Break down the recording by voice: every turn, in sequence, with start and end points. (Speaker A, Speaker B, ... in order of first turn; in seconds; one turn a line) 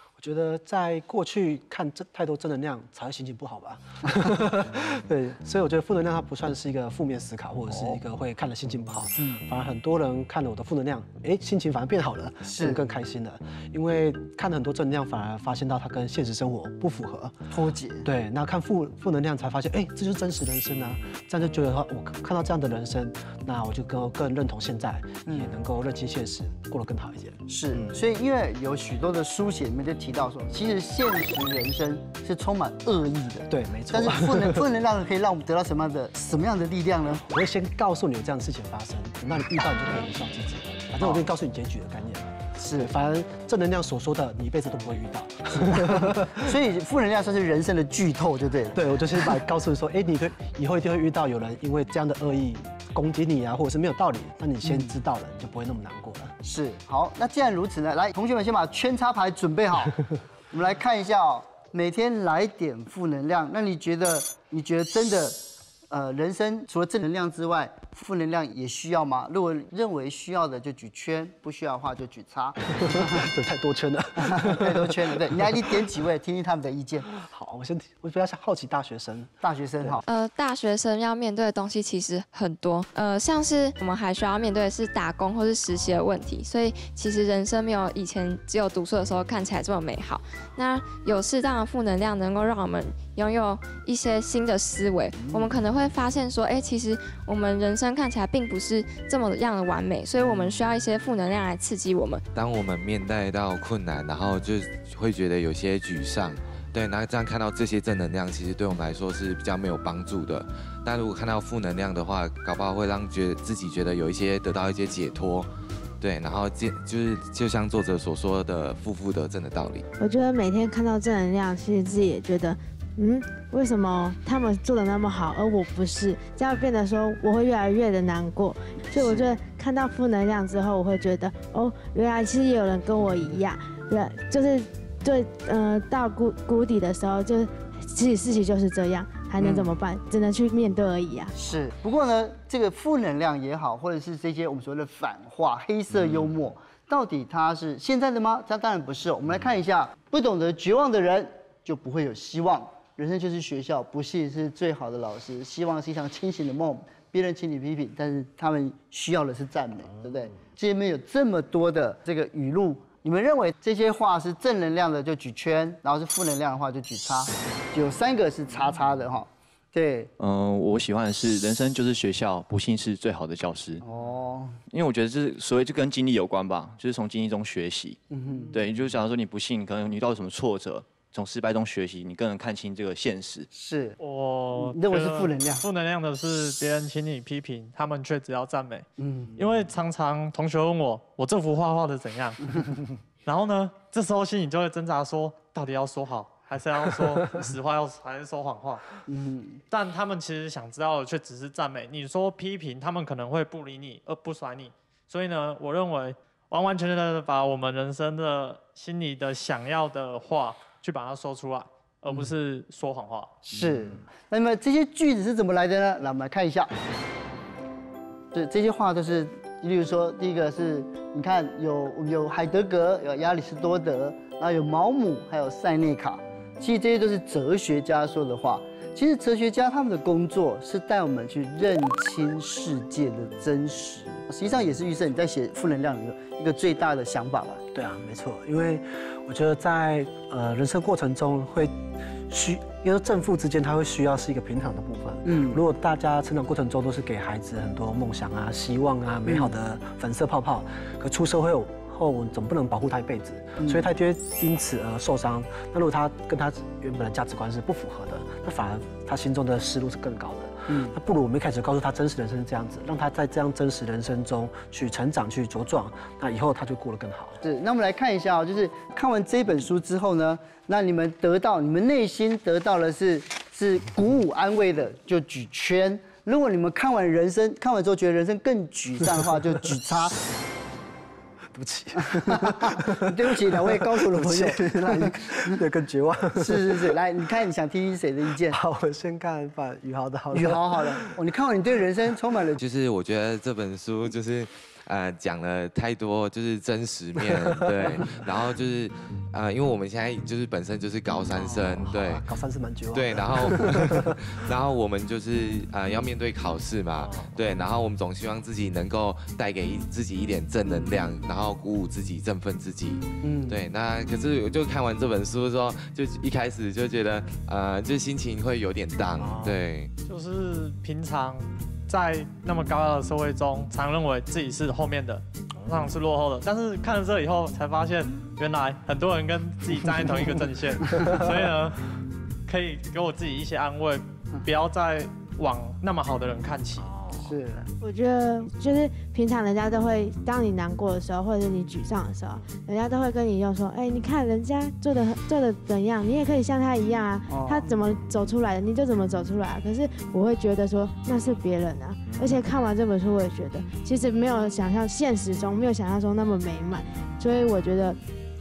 Speaker A: 0.2-17.4
Speaker B: 7.7-8.0
Speaker B: 12.5-12.8
Speaker B: 17.5-18.1
Speaker A: 18.0-28.0
Speaker B: 25.2-25.5
Speaker B: 27.5-37.2
Speaker A: 33.5-34.6
Speaker A: 37.3-46.4
Speaker B: 42.6-42.9
Speaker B: 45.7-48.8
Speaker A: 48.7-56.4
Speaker B: 56.4-73.2
Speaker A: 72.8-75.6
Speaker B: 74.2-77.1
Speaker A: 77.1-80.0
Speaker B: 79.4-80.0
Speaker C: 80.0-102.2
Speaker D: 102.3-115.5
Speaker D: 116.0-119.8
Speaker E: 120.0-141.3
Speaker B: 128.9-129.3
Speaker B: 133.0-133.4
Speaker B: 139.4-139.7
Speaker B: 141.3-170.1
Speaker F: 170.2-173.8
Speaker B: 173.8-174.6
Speaker F: 174.7-178.0
Speaker B: 178.1-178.5
Speaker F: 178.5-183.5
Speaker B: 183.5-184.0
Speaker G: 184.0-199.0
Speaker B: 184.5-185.6
Speaker B: 189.0-189.3
Speaker B: 199.1-199.6
Speaker G: 199.7-213.3
Speaker B: 213.5-216.7
Speaker B: 218.3-237.6
Speaker A: 237.7-267.4
Speaker B: 245.2-245.6
Speaker B: 253.6-253.9
Speaker B: 260.7-260.9
Speaker B: 267.4-280.2
Speaker A: 281.5-286.9
Speaker B: 282.0-285.6
Speaker B: 286.4-288.6
Speaker A: 288.4-291.1
Speaker B: 290.3-292.6
Speaker D: 292.6-302.2
Speaker A: 297.2-298.1
Speaker A: 301.3-304.3
Speaker D: 302.9-319.9
Speaker A: 307.0-307.4
Speaker B: 313.2-313.6
Speaker A: 319.1-319.6
Speaker G: 320.1-331.9
Speaker A: 325.6-325.9
Speaker G: 332.5-336.9
Speaker B: 337.1-337.7
Speaker E: 337.8-358.0
Speaker B: 347.3-347.8